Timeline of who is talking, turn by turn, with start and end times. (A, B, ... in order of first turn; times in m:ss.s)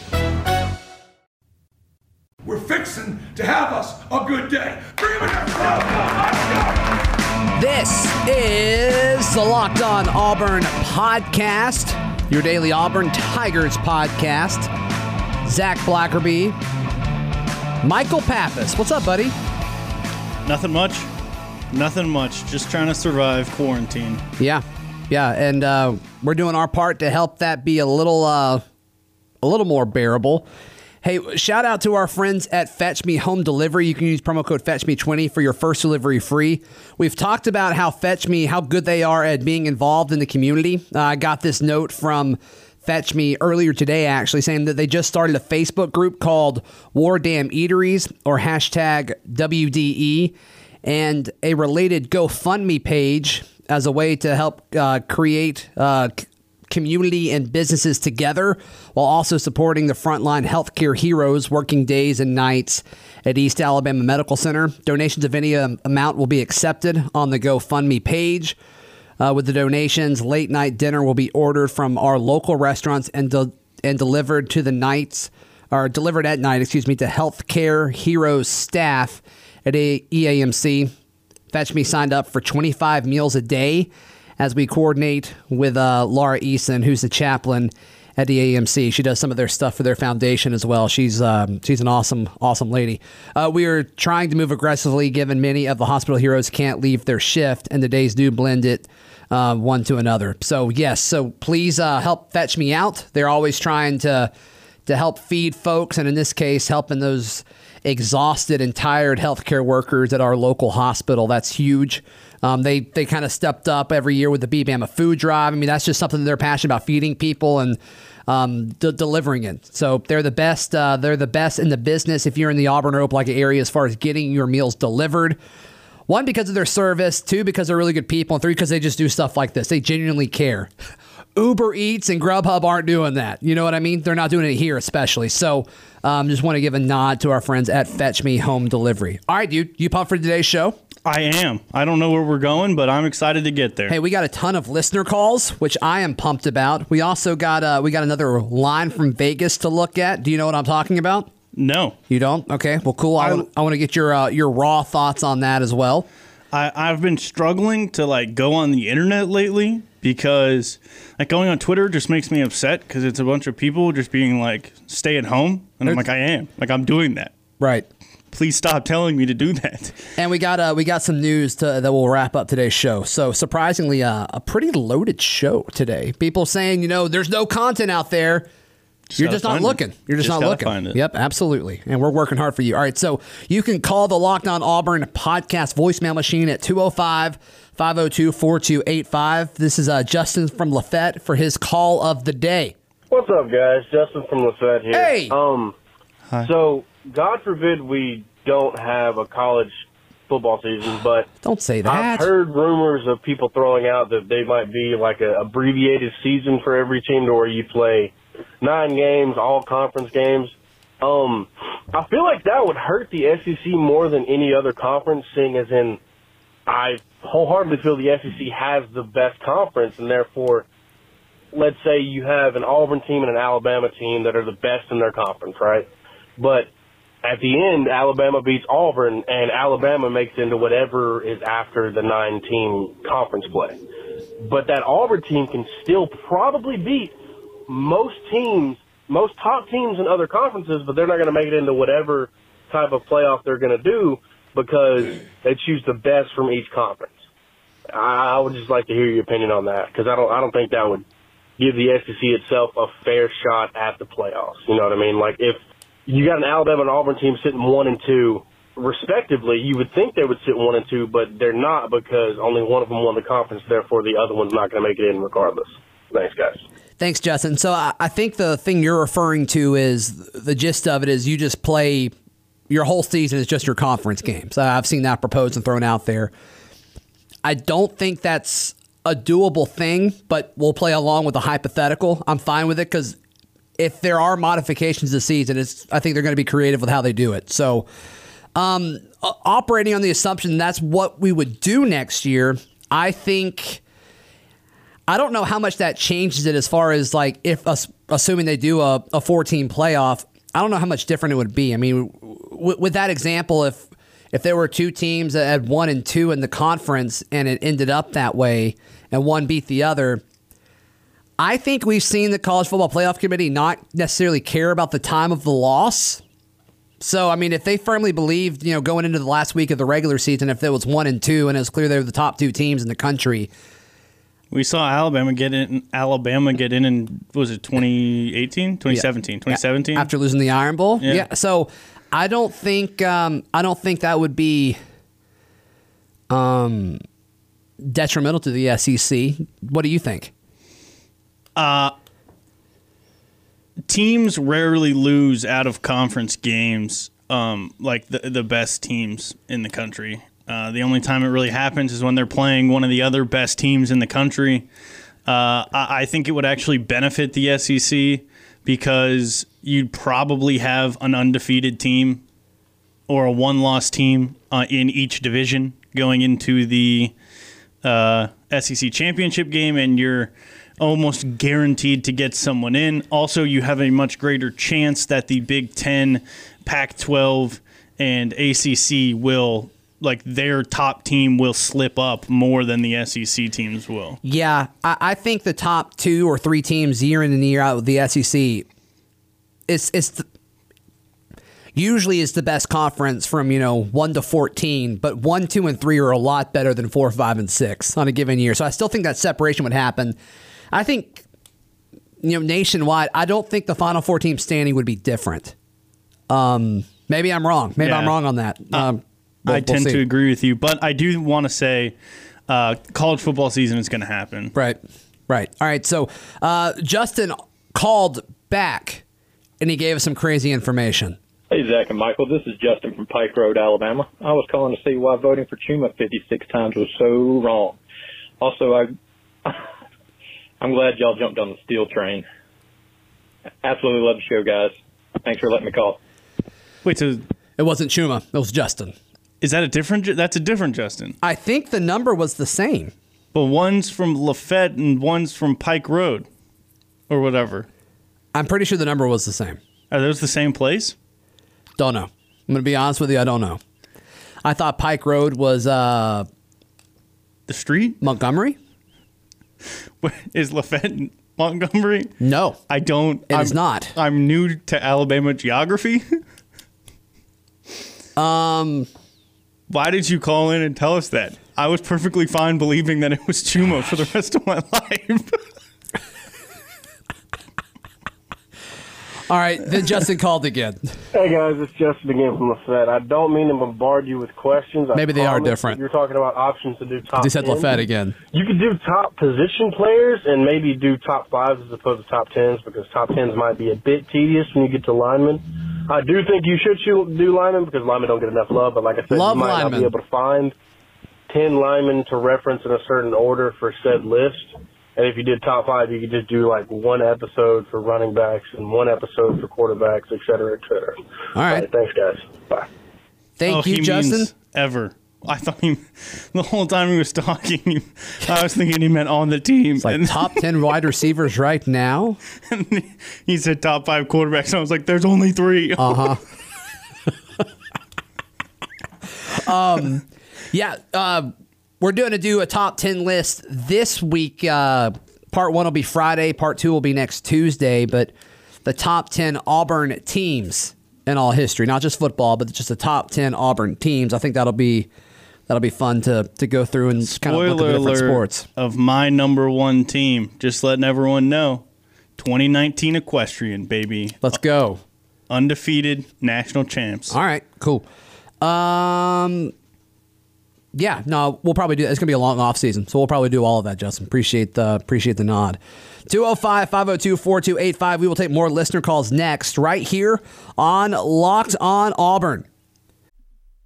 0:02.4-0:06.7 A
0:07.6-0:14.7 B
0:15.4-0:16.6 B
0:17.8-0:19.3 B
0:20.4-0:21.1 C
0:21.7-0:24.2 C
0:24.4-0:28.6 B
0:29.4-0:30.5 B
0:31.0-0:50.3 B
0:50.8-1:08.6 B
1:09.2-1:20.9 B
1:21.5-1:44.3 B
1:44.9-2:05.4 B
2:06.1-2:10.7 B
2:11.4-2:20.8 B
2:21.0-2:23.9 C
2:23.9-2:31.3 B
2:31.6-2:32.0 C
2:32.1-2:36.1 B
2:33.2-2:33.4 C
2:36.5-2:47.3 C
2:47.6-2:47.9 B
2:48.3-2:50.0 C
2:50.2-2:58.5 B
2:59.1-3:01.0 C
2:59.2-3:12.7 B
3:13.1-3:15.8 D
3:14.9-3:15.3 B
3:16.4-3:19.8 D
3:20.3-3:21.3 D
3:21.4-3:22.3 B
3:21.8-3:36.0 D
3:36.7-3:40.6 D
3:41.5-3:46.7 D
3:47.2-3:53.8 D
3:54.4-3:57.1 D
3:57.7-4:07.2 D
4:07.9-4:11.0 D
4:11.6-4:26.6 D
4:27.0-4:32.1 B
4:32.7-4:36.3 B
4:37.4-4:43.2 B
4:43.8-4:47.8 B
4:48.5-4:53.8 B
4:55.1-5:10.2 B
5:11.4-5:16.2 B
5:17.0-5:23.5 B
5:24.5-5:30.1 C
5:28.9-5:34.8 B
5:31.0-5:31.2 C
5:36.3-5:37.0 B
5:37.8-5:40.3 B
5:41.6-5:41.9 C
5:43.9-5:54.6 C
5:55.3-6:02.2 C
6:03.1-6:07.1 C
6:07.8-6:24.2 C
6:24.2-6:28.6 B
6:29.7-6:30.2 B
6:31.7-6:40.2 B
6:40.7-6:41.2 B
6:42.2-6:45.5 B
6:46.3-6:50.0 B
6:47.8-6:48.2 C
6:49.5-6:51.9 C
6:52.5-6:54.5 C
6:54.5-6:59.0 B
6:59.6-7:01.2 B
7:01.5-7:07.8 E
7:08.4-7:08.9 E
7:10.6-7:12.2 E
7:13.6-7:16.0 E
7:16.8-7:17.2 C
7:17.6-7:18.9 B
7:19.4-7:21.2 C
7:21.2-7:22.9 B
7:23.3-7:26.2 C
7:27.1-7:27.7 C
7:28.3-7:29.6 B
7:29.9-7:30.9 C
7:31.8-7:33.6 B
7:34.4-7:36.3 B
7:37.5-7:38.0 C
7:38.0-7:38.6 B
7:40.0-7:42.1 C
7:42.2-7:42.6 B
7:42.7-7:46.0 C
7:43.3-7:44.0 B
7:48.2-7:48.9 B
7:49.7-7:55.4 C
7:59.3-8:00.8 B
8:01.1-8:07.8 D
8:04.9-8:05.8 B
8:07.2-8:08.1 B
8:08.3-8:20.5 D
8:19.1-8:19.9 B
8:21.3-8:32.7 D
8:31.3-8:31.6 B
8:33.4-8:34.3 B
8:33.4-8:40.4 C
8:39.8-8:42.2 B
8:42.5-8:46.2 C
8:45.8-8:46.2 B
8:49.3-8:58.1 B
8:58.6-9:04.9 B
9:05.5-9:08.4 B
9:07.0-9:11.6 C
9:12.2-9:14.4 C
9:14.2-9:14.8 B
9:15.3-9:17.2 C
9:17.1-9:17.9 B
9:18.4-9:19.5 B
9:20.7-9:32.5 B